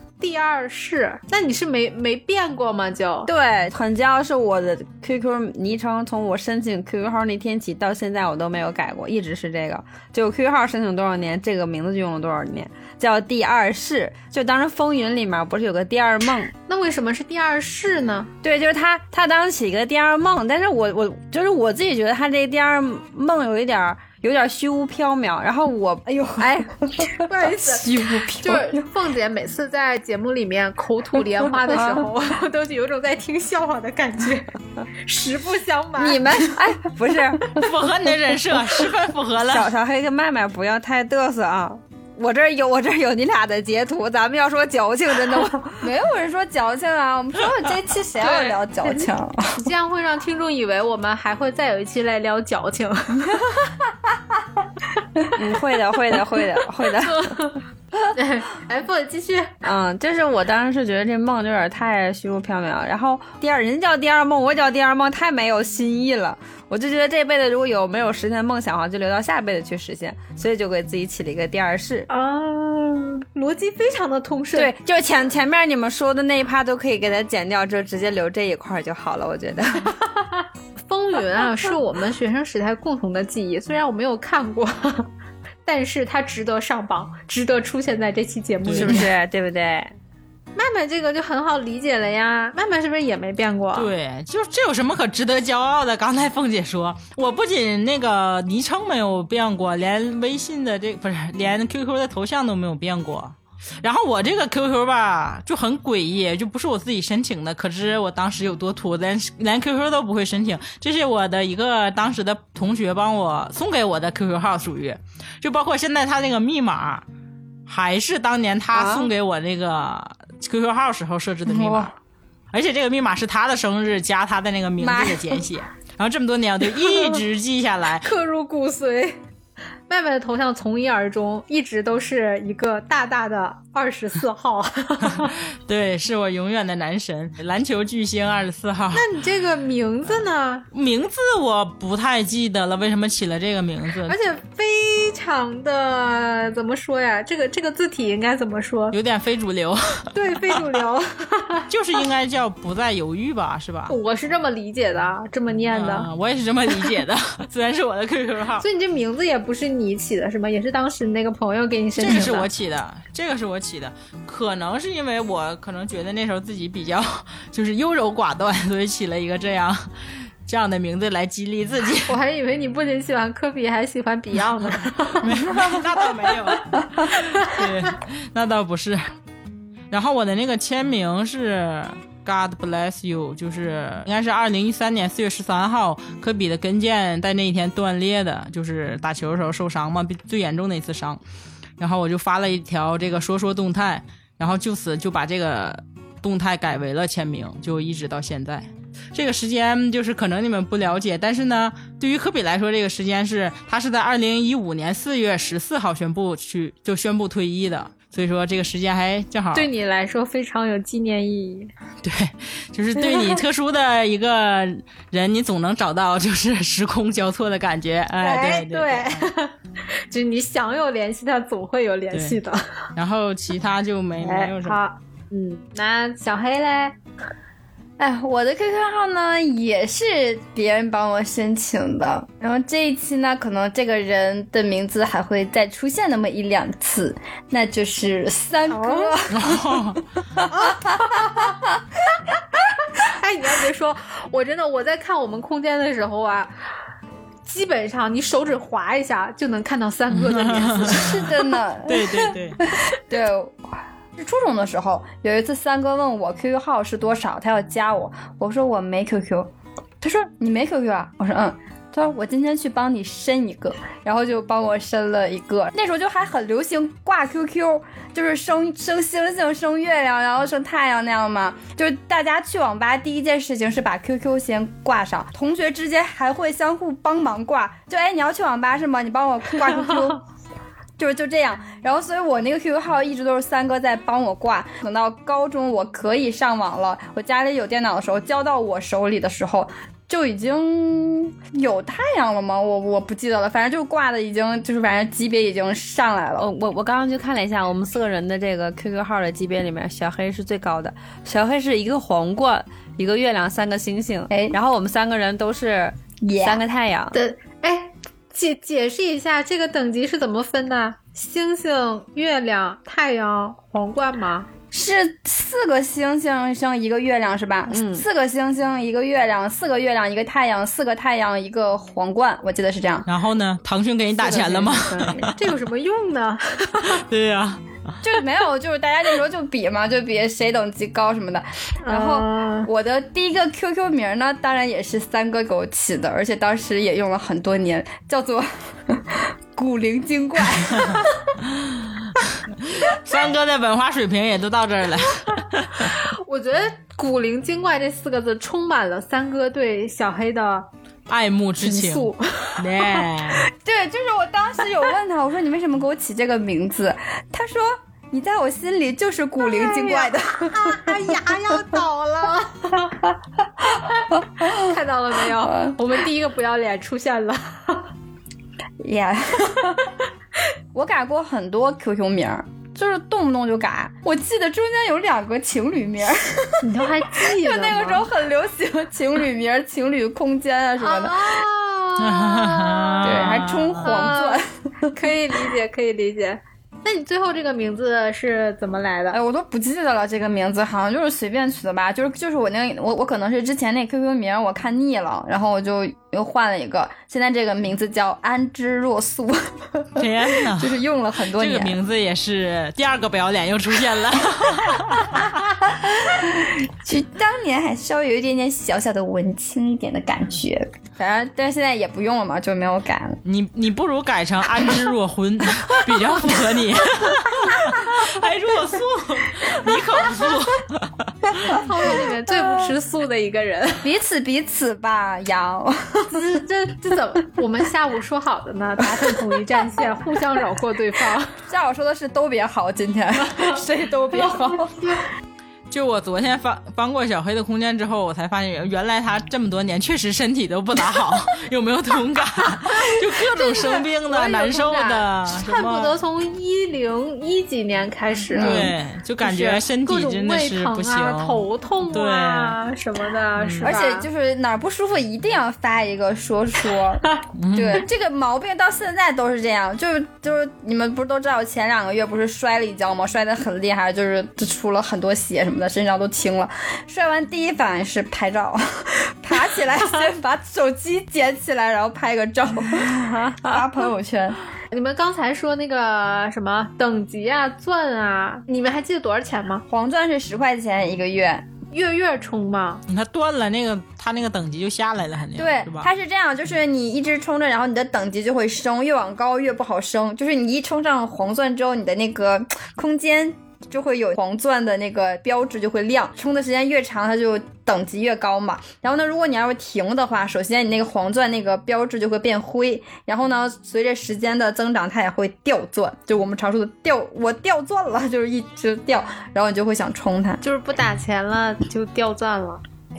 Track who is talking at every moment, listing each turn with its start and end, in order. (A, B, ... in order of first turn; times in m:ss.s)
0:00.2-0:03.3 A
0:03.2-0:16.5 B
0:16.7-0:18.3 A
0:18.4-0:26.8 B
0:26.1-0:27.2 C
0:27.1-0:36.4 A
0:27.7-0:28.8 C
0:36.0-0:37.6 B
0:37.5-0:39.7 D
0:39.4-0:45.8 B
0:45.8-0:49.7 C
0:48.2-0:53.5 A
0:55.3-0:57.5 B
0:57.1-0:59.6 A
0:59.6-1:12.1 B
1:12.1-1:14.7 A
1:14.5-1:19.9 B
1:20.2-1:25.1 A
1:25.6-1:29.1 A
1:28.6-1:29.0 D
1:28.8-1:29.9 B
1:30.5-1:33.9 A
1:33.7-1:57.0 D
1:57.7-2:01.9 D
1:58.7-1:59.1 B
2:01.5-2:01.9 C
2:02.5-2:08.0 D
2:04.8-2:05.4 C
2:08.0-2:09.2 A
2:09.9-2:15.3 A
2:15.0-2:19.1 D
2:18.9-2:20.7 A
2:20.7-2:24.2 D
2:24.1-2:29.0 A
2:28.9-2:30.1 D
2:30.1-2:31.7 A
2:31.7-2:33.9 D
2:33.9-2:36.1 A
2:35.7-2:38.6 D
2:38.6-2:42.5 A
2:42.0-2:49.9 D
2:50.4-2:52.1 D
2:52.1-2:55.6 A
2:55.2-2:59.0 D
2:59.9-3:11.2 D
3:11.8-3:29.7 D
3:29.5-3:31.7 A
3:32.0-3:39.2 D
3:38.2-3:39.5 A
3:40.1-3:42.9 A
3:42.1-3:42.4 D
3:43.0-3:44.8 D
3:44.2-3:47.0 A
3:48.0-3:59.6 C
3:58.7-3:59.2 A
3:59.3-4:00.0 D
4:00.5-4:01.4 A
4:02.9-4:06.5 A
4:07.4-4:11.4 A
4:10.1-4:11.3 D
4:10.9-4:19.5 C
4:11.8-4:12.6 D
4:20.0-4:40.2 C
4:41.0-4:56.5 C
4:56.4-5:07.2 B
5:04.3-5:04.6 C
5:06.2-5:06.6 C
5:07.1-5:14.5 A
5:14.7-5:23.1 C
5:17.7-5:18.0 B
5:23.1-5:25.5 D
5:24.2-5:27.0 A
5:26.9-5:28.0 D
5:28.0-5:41.1 C
5:31.8-5:32.7 A
5:41.6-5:42.0 D
5:42.6-5:45.9 D
5:45.8-5:50.7 A
5:51.1-5:53.5 D
5:51.6-5:53.1 A
5:53.6-6:00.9 C
5:59.4-6:02.9 A
6:04.4-6:07.9 A
6:05.4-6:05.7 C
6:08.8-6:09.9 C
6:10.7-6:21.4 C
6:16.6-6:18.1 A
6:20.8-6:29.2 A
6:22.0-6:23.9 D
6:23.0-6:25.0 C
6:29.1-6:41.8 C
6:40.0-6:45.6 D
6:45.8-6:53.2 C
6:53.2-7:01.6 D
7:01.4-7:03.9 A
7:03.8-7:06.2 C
7:06.1-7:11.3 A
7:11.5-7:14.9 C
7:14.7-7:15.0 A
7:15.7-7:25.9 D
7:23.1-7:34.0 A
7:28.3-7:28.7 C
7:28.3-7:32.6 D
7:33.4-7:33.8 D
7:33.6-7:54.4 C
7:37.4-7:37.8 D
7:52.8-7:53.6 B
7:54.7-7:59.6 A
7:59.7-8:01.4 C
8:01.7-8:02.8 A
8:02.9-8:05.9 D
8:05.4-8:30.4 C
8:30.4-8:32.6 A